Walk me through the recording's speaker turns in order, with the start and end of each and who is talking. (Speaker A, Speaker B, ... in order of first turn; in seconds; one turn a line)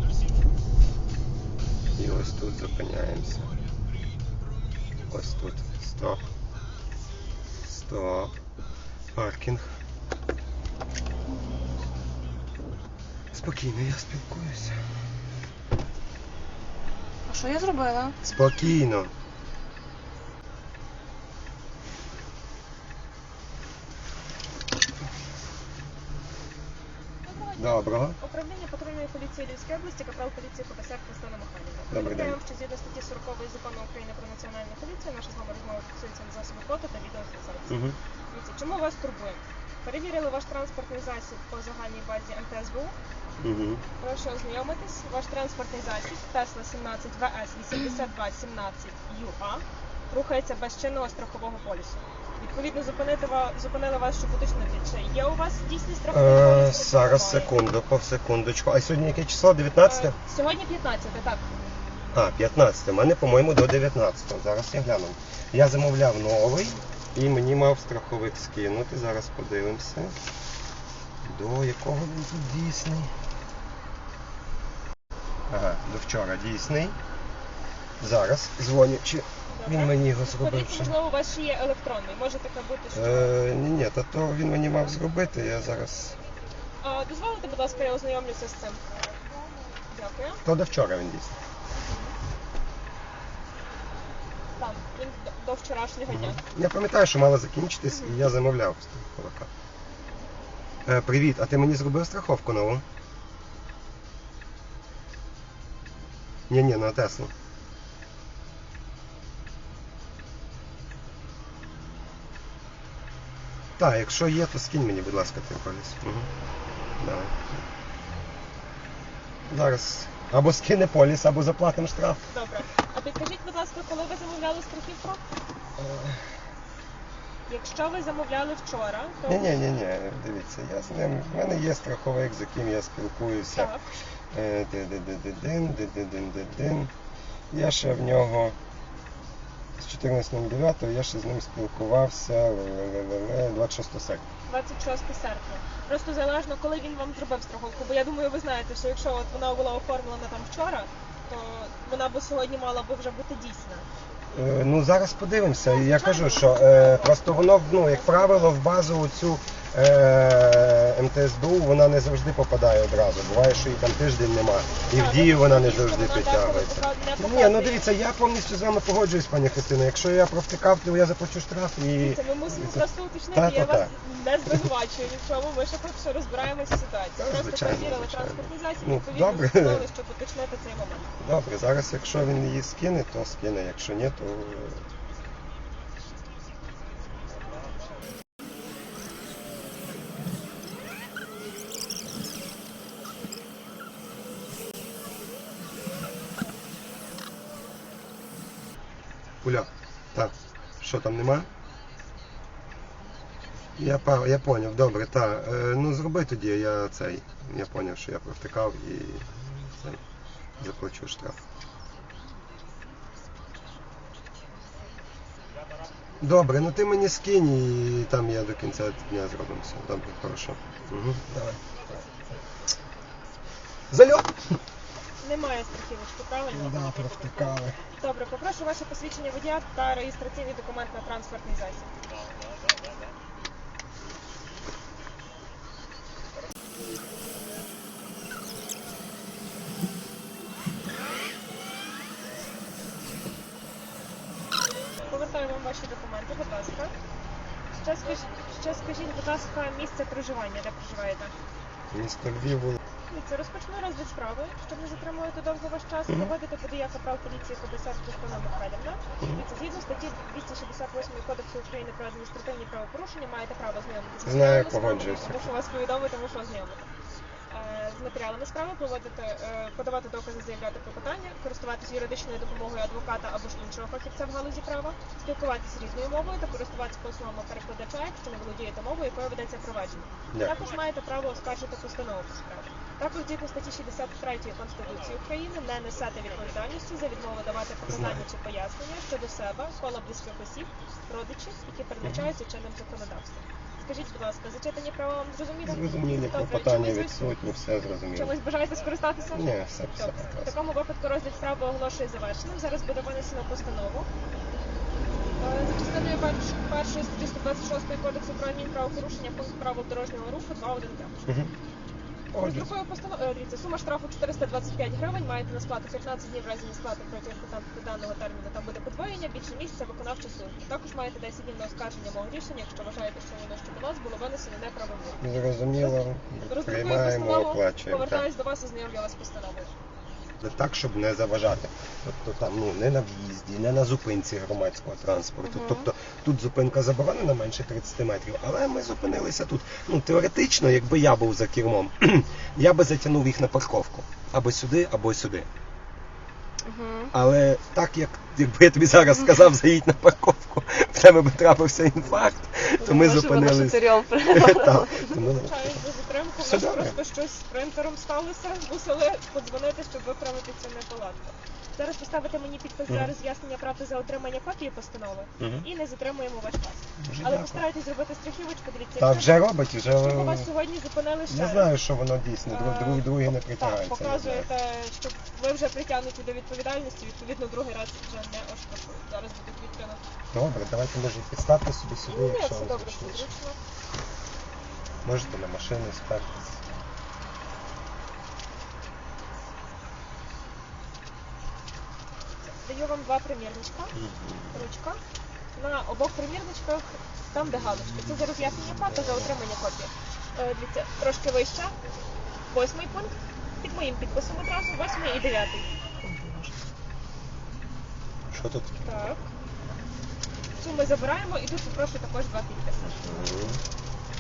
Speaker A: 2.0-3.5
Speaker A: 5.1-6.2
Speaker A: 7.6-8.3
Speaker A: 9.1-9.6
Speaker A: 13.3-14.8
Speaker B: 17.3-18.2
Speaker A: 18.2-19.1
Speaker C: 27.3-43.0
Speaker A: 27.6-28.2
Speaker A: 31.9-32.4
Speaker A: 37.7-38.0
Speaker A: 43.4-43.8
Speaker C: 44.0-57.6
Speaker A: 56.1-60.2
Speaker C: 59.8-61.5
Speaker A: 62.1-70.2
Speaker A: 71.2-73.1
Speaker A: 75.5-77.0
Speaker A: 78.0-81.0
Speaker C: 79.5-83.4
Speaker A: 82.9-86.2
Speaker C: 86.8-88.8
Speaker C: 89.9-90.4
Speaker A: 90.5-91.4
Speaker C: 91.8-92.2
Speaker C: 94.6-96.4
Speaker A: 96.1-99.5
Speaker C: 97.9-98.2
Speaker A: 100.9-102.8
Speaker A: 106.5-107.3
Speaker A: 113.8-116.3
Speaker A: 117.0-117.6
Speaker A: 119.5-122.2
Speaker C: 122.3-125.2
Speaker A: 125.8-126.2
Speaker C: 127.5-129.6
Speaker A: 129.2-133.7
Speaker C: 133.5-133.9
Speaker A: 134.3-136.9
Speaker A: 137.5-138.6
Speaker A: 139.8-144.2
Speaker C: 144.5-153.9
Speaker A: 154.3-173.9
Speaker C: 155.6-158.5
Speaker C: 164.9-167.9
Speaker C: 172.0-181.1
Speaker A: 177.2-179.9
Speaker A: 181.2-184.8
Speaker A: 199.4-201.5
Speaker A: 203.8-210.0
Speaker A: 210.6-211.4
Speaker A: 216.2-221.8
Speaker A: 223.9-224.4
Speaker C: 225.2-231.9
Speaker A: 226.5-227.8
Speaker C: 245.1-246.9
Speaker C: 247.7-251.3
Speaker A: 251.9-252.8
Speaker C: 253.1-266.9
Speaker A: 264.2-265.5
Speaker C: 267.5-297.2
Speaker A: 280.3-280.6
Speaker A: 287.8-288.2
Speaker A: 295.6-298.3
Speaker C: 298.1-304.1
Speaker A: 299.3-300.5
Speaker C: 305.4-311.2
Speaker A: 311.3-311.5
Speaker A: 312.3-312.7
Speaker C: 312.4-325.2
Speaker A: 325.2-328.3
Speaker C: 325.8-329.7
Speaker A: 330.4-345.5
Speaker B: 335.4-335.9
Speaker B: 346.6-347.1
Speaker A: 347.1-355.7
Speaker B: 352.8-355.1
Speaker C: 355.1-369.3
Speaker A: 356.4-357.0
Speaker A: 365.4-365.6
Speaker A: 367.0-367.6
Speaker A: 369.0-370.5
Speaker C: 369.9-371.7
Speaker A: 371.3-374.5
Speaker C: 372.5-380.0
Speaker A: 380.3-383.3
Speaker C: 382.0-383.6
Speaker A: 385.0-386.7
Speaker C: 392.4-393.9
Speaker A: 393.9-394.6
Speaker C: 394.5-395.0
Speaker C: 395.5-401.7
Speaker A: 397.9-399.4
Speaker C: 402.5-405.7
Speaker A: 406.0-406.5
Speaker A: 408.3-408.9
Speaker C: 408.8-409.3
Speaker C: 410.6-413.0
Speaker A: 412.9-413.6